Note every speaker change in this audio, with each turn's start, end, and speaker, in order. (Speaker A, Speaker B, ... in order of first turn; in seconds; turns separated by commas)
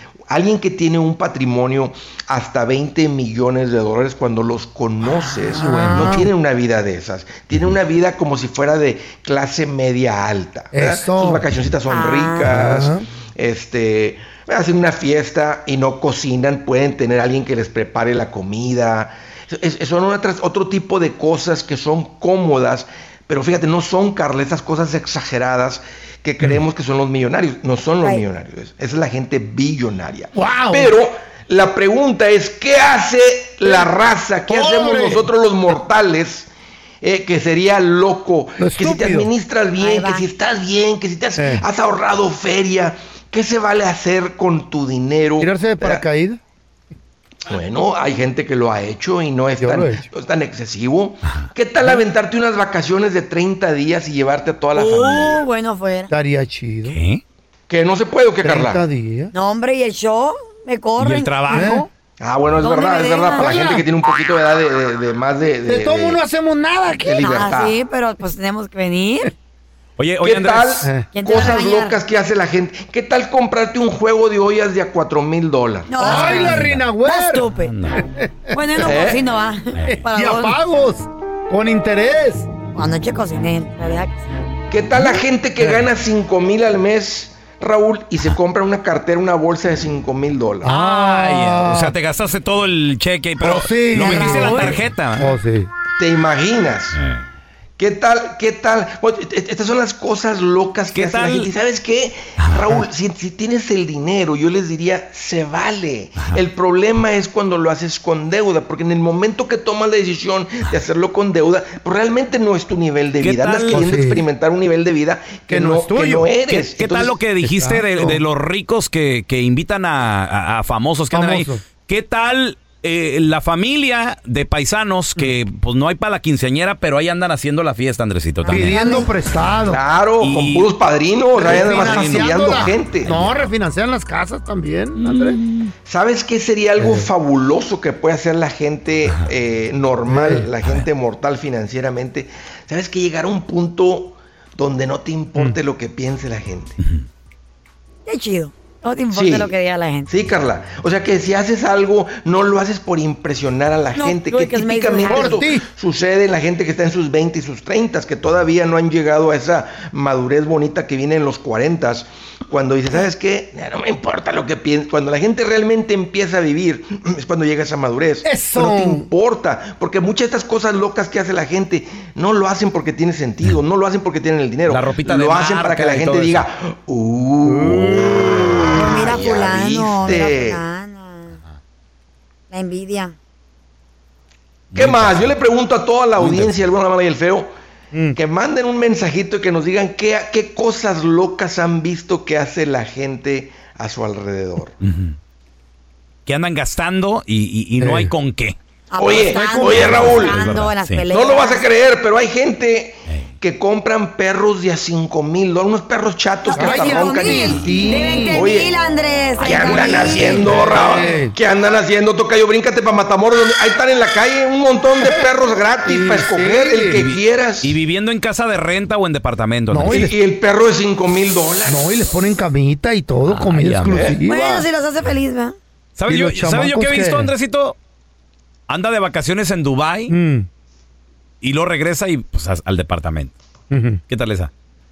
Speaker A: 0.3-36.5, Speaker B: 5.5-6.3, Speaker C: 5.6-6.2, Speaker B: 10.7-11.4, Speaker C: 11.9-12.6, Speaker B: 12.4-13.0, Speaker B: 30.3-30.9, Speaker B: 34.5-35.3, Speaker A: 37.0-46.0, Speaker B: 38.6-39.3, Speaker C: 39.8-40.2, Speaker B: 41.4-41.6, Speaker B: 45.4-46.4, Speaker A: 47.5-55.5, Speaker B: 49.6-50.0, Speaker D: 51.2-51.5, Speaker C: 54.7-56.1, Speaker B: 56.1-57.0, Speaker D: 56.8-57.2, Speaker A: 57.7-58.8, Speaker B: 58.4-59.3, Speaker C: 59.3-61.7, Speaker D: 61.0-61.9, Speaker B: 61.5-61.9, Speaker A: 62.2-66.2, Speaker C: 62.6-63.7, Speaker B: 63.4-63.8, Speaker B: 65.7-67.5, Speaker A: 67.0-67.8, Speaker C: 67.2-69.3, Speaker D: 70.0-70.9, Speaker A: 70.2-76.4, Speaker B: 70.8-71.1, Speaker C: 71.1-72.0, Speaker C: 75.9-77.7, Speaker B: 76.0-79.0, Speaker D: 76.2-76.9, Speaker D: 77.6-78.0, Speaker C: 78.5-80.6, Speaker A: 78.8-79.2, Speaker D: 79.8-80.0, Speaker B: 79.9-82.5, Speaker C: 82.7-84.2, Speaker A: 84.7-90.7, Speaker B: 85.0-85.8, Speaker B: 90.6-91.9, Speaker D: 90.7-95.3, Speaker B: 93.4-95.7, Speaker C: 94.0-94.8, Speaker A: 96.0-97.0, Speaker D: 96.9-97.2, Speaker A: 97.8-117.2, Speaker D: 100.9-101.5, Speaker D: 102.4-102.7, Speaker D: 113.2-113.9, Speaker B: 113.7-114.2, Speaker B: 115.5-116.3, Speaker D: 116.5-129.1, Speaker B: 117.4-118.2, Speaker B: 121.1-121.6, Speaker C: 128.4-129.1, Speaker B: 128.5-129.8, Speaker A: 129.7-133.2, Speaker D: 130.2-130.7, Speaker B: 131.3-135.4, Speaker D: 131.4-133.4, Speaker D: 135.0-135.7, Speaker A: 135.9-146.8, Speaker B: 136.8-137.1, Speaker B: 140.1-140.5, Speaker D: 146.8-147.0, Speaker C: 148.1-150.1, Speaker A: 149.1-149.5, Speaker A: 150.1-180.6, Speaker C: 153.9-155.4, Speaker B: 155.1-155.7, Speaker B: 168.2-169.1, Speaker D: 174.7-176.4, Speaker B: 177.4-179.2, Speaker D: 177.7-178.3, Speaker C: 178.7-181.4, Speaker C: 182.5-183.2, Speaker D: 184.7-185.4, Speaker A: 184.7-187.5, Speaker D: 186.2-186.5, Speaker B: 187.9-188.2, Speaker A: 188.1-194.8, Speaker D: 194.8-195.2, Speaker D: 196.2-198.6, Speaker B: 197.8-198.1, Speaker C: 198.9-201.7, Speaker A: 199.0-200.5, Speaker B: 199.3-200.1, Speaker D: 199.7-201.0, Speaker A: 201.1-208.8, Speaker C: 206.4-210.8, Speaker B: 206.5-208.5, Speaker A: 209.4-217.8, Speaker B: 209.4-211.3, Speaker B: 215.8-217.0, Speaker D: 216.9-220.1, Speaker B: 219.7-220.1, Speaker A: 219.8-221.8, Speaker B: 221.7-224.7, Speaker D: 223.3-224.1, Speaker A: 223.9-224.2, Speaker C: 224.2-225.6, Speaker D: 225.9-227.8, Speaker B: 226.1-227.3, Speaker D: 228.7-230.1, Speaker B: 230.1-230.5, Speaker D: 231.4-233.3, Speaker B: 233.7-234.0, Speaker D: 234.1-234.5